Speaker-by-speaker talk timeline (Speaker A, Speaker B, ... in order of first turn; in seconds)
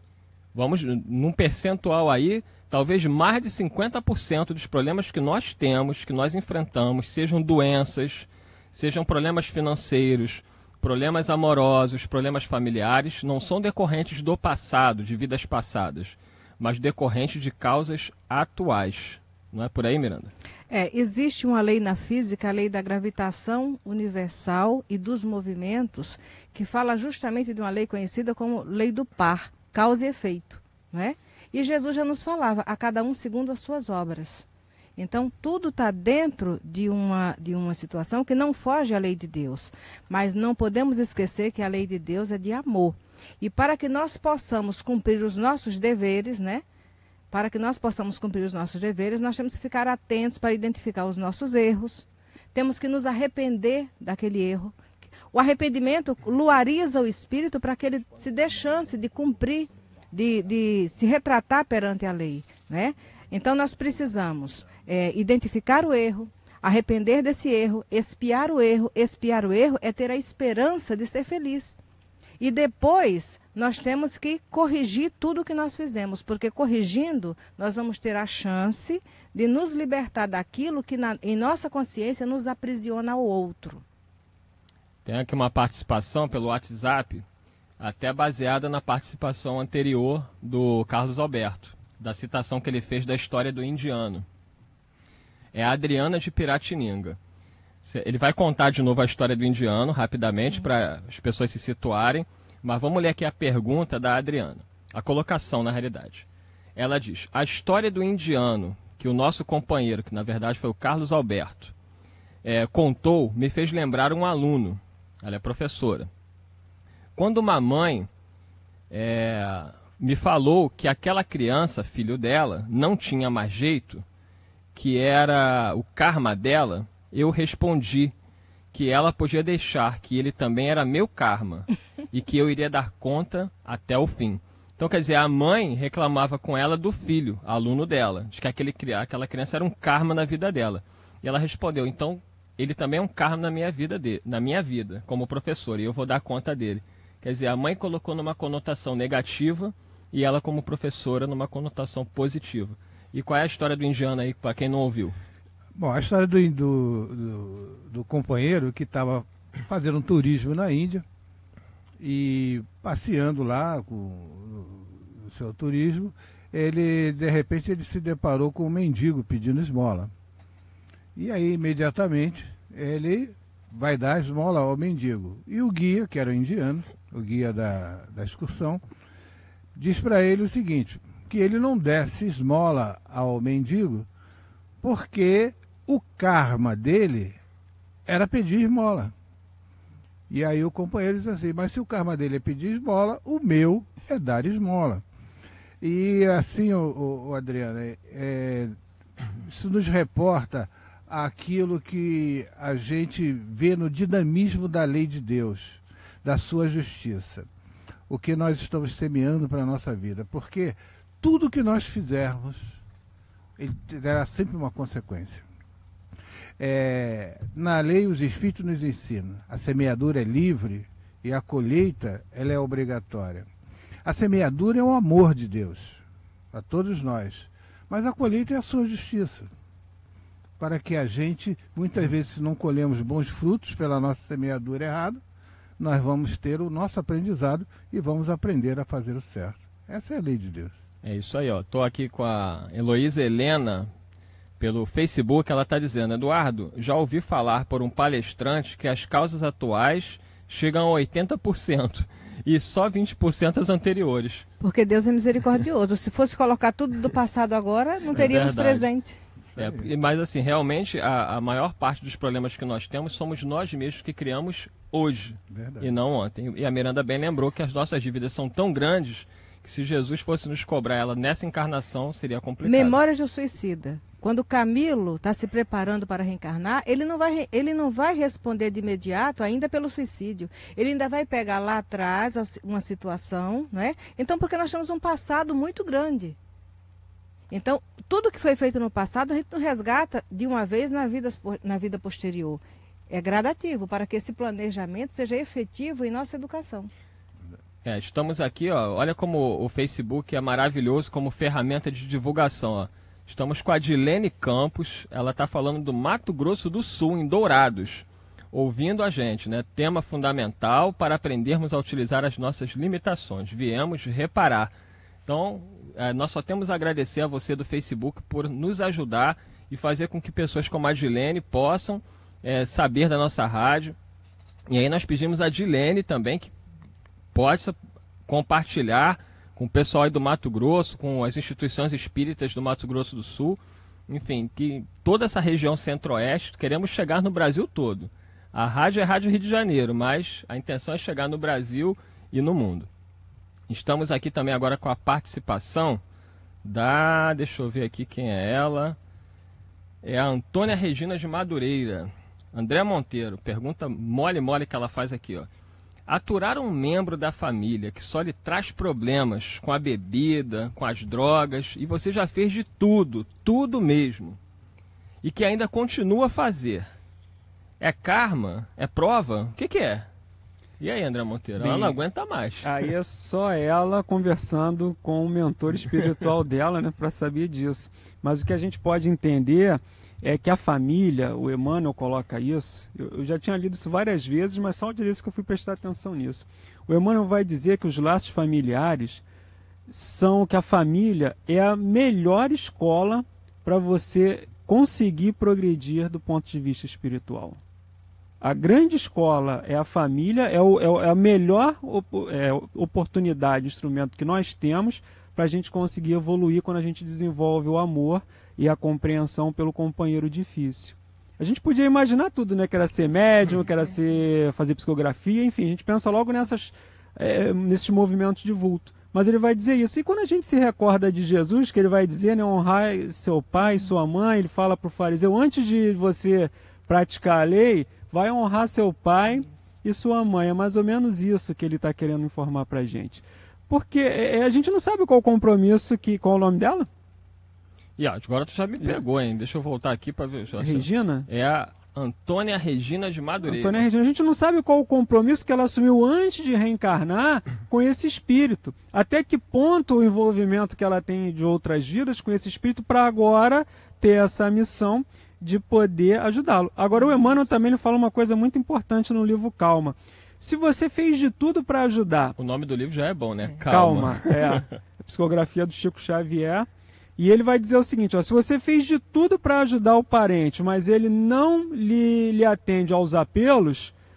Speaker A: 0.5-20.3, 85.0-87.2, 87.8-94.2, 95.5-97.2, 97.8-111.7, 112.4-116.1, 117.2-118.1, 118.9-124.0, 124.7-128.1, 128.7-155.2, 241.0-243.9, 244.6-254.5, 258.1-258.9, 259.6-273.0, 297.8-314.7, 315.2-323.9, 324.7-326.5, 327.3-342.9, 343.7-346.0, 346.6-349.0, 350.0-355.5, 356.1-364.4, 365.2-366.9, 367.8-370.1, 370.8-372.7, 438.0-443.9, 462.4-464.6
Speaker B: 20.7-46.6, 47.3-54.8, 55.3-71.8, 72.4-83.8, 254.6-259.2, 272.6-286.4, 287.5-296.9
Speaker C: 155.7-161.0, 162.0-170.1, 171.1-178.8, 179.8-184.1, 184.8-187.4, 188.1-189.1, 190.3-195.0, 195.8-198.8, 199.3-207.5, 208.1-212.8, 213.6-215.4, 216.6-223.5, 224.0-229.5, 230.6-235.2, 235.8-240.8, 259.5-259.9, 265.5-265.9
Speaker D: 371.6-372.0, 372.6-389.2, 389.9-397.6, 398.4-436.9, 440.6-441.3, 443.4-462.4, 463.7-473.9